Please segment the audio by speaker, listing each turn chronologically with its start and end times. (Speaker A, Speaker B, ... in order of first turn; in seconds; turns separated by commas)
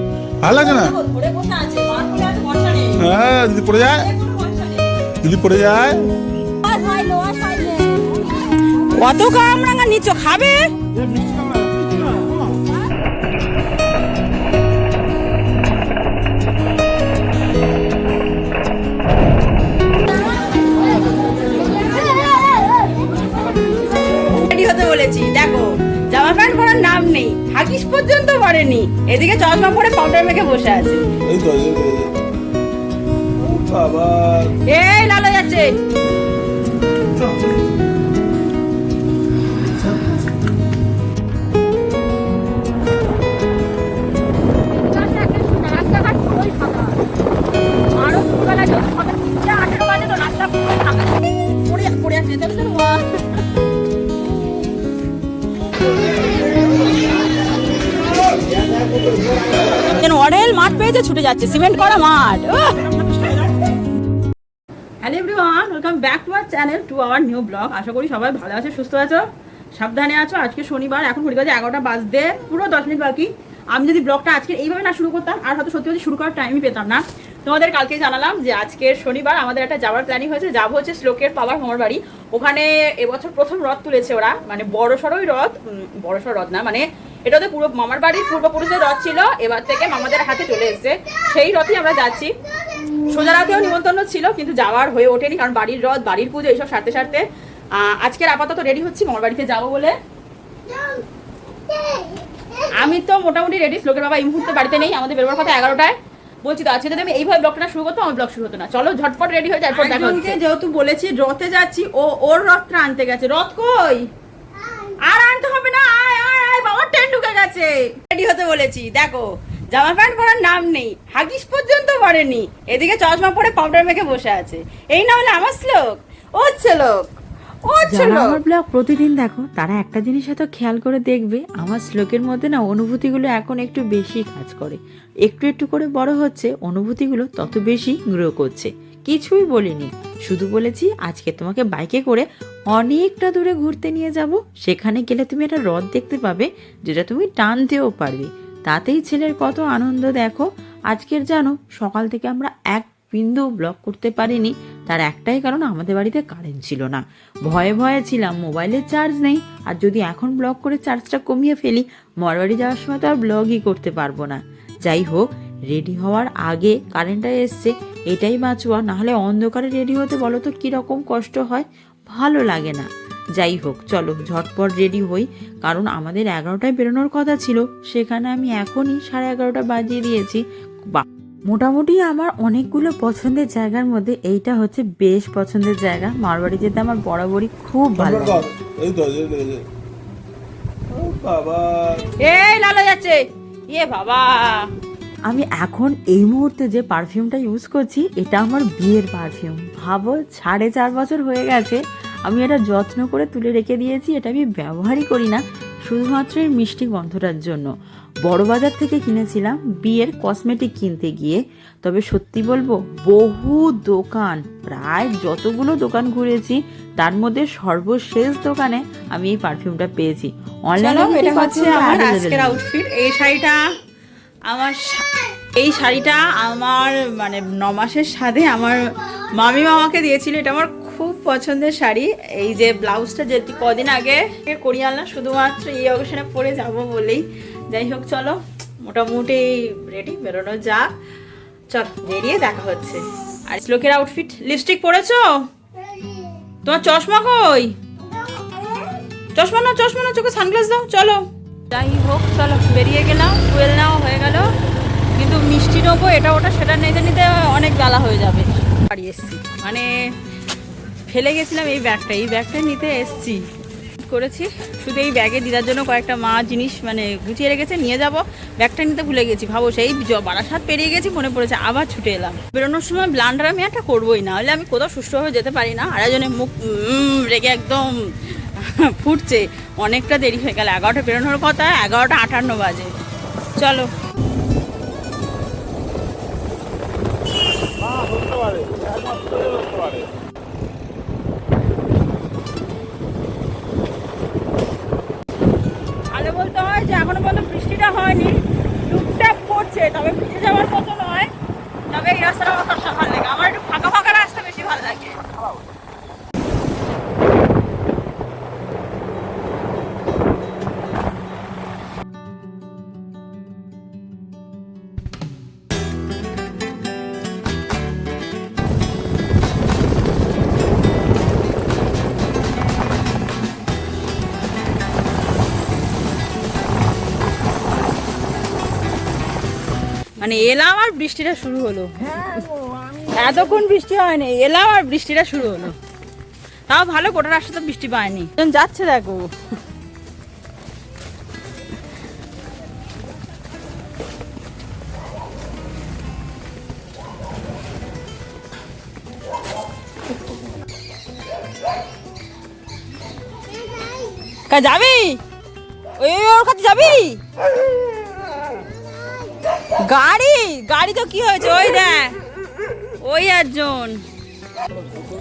Speaker A: 0.4-0.9, Speaker B: 0.5-3.0, Speaker A: 3.0-4.0, Speaker B: 3.7-4.9, Speaker A: 5.2-6.0, Speaker B: 6.6-8.0, Speaker B: 8.8-10.7, Speaker B: 24.2-31.0, Speaker A: 31.2-32.0, Speaker A: 33.4-34.5, Speaker B: 34.6-35.8, Speaker B: 44.7-47.0, Speaker B: 48.0-53.4, Speaker B: 59.8-63.3, Speaker B: 65.0-92.3, Speaker B: 93.1-97.2, Speaker B: 97.8-100.0, Speaker B: 102.8-114.1, Speaker B: 115.0-125.8, Speaker B: 126.4-127.1, Speaker B: 127.7-128.4, Speaker C: 127.8-188.4, Speaker A: 188.0-189.6, Speaker A: 190.9-192.0, Speaker B: 192.2-194.6, Speaker C: 195.3-207.7, Speaker C: 208.2-222.6, Speaker B: 220.8-223.6, Speaker B: 224.5-225.0, Speaker B: 225.6-228.8, Speaker B: 229.3-240.9, Speaker B: 241.7-245.4, Speaker B: 246.6-247.7, Speaker B: 249.3-254.4, Speaker B: 255.2-259.9, Speaker B: 261.1-263.4, Speaker B: 264.0-282.9, Speaker B: 283.6-283.9, Speaker A: 288.1-289.9, Speaker B: 296.1-301.3, Speaker B: 301.9-305.2, Speaker B: 330.2-332.4, Speaker B: 333.1-335.7, Speaker B: 336.7-339.3, Speaker B: 354.4-355.2, Speaker B: 356.0-357.2, Speaker B: 359.8-362.2, Speaker B: 363.0-364.0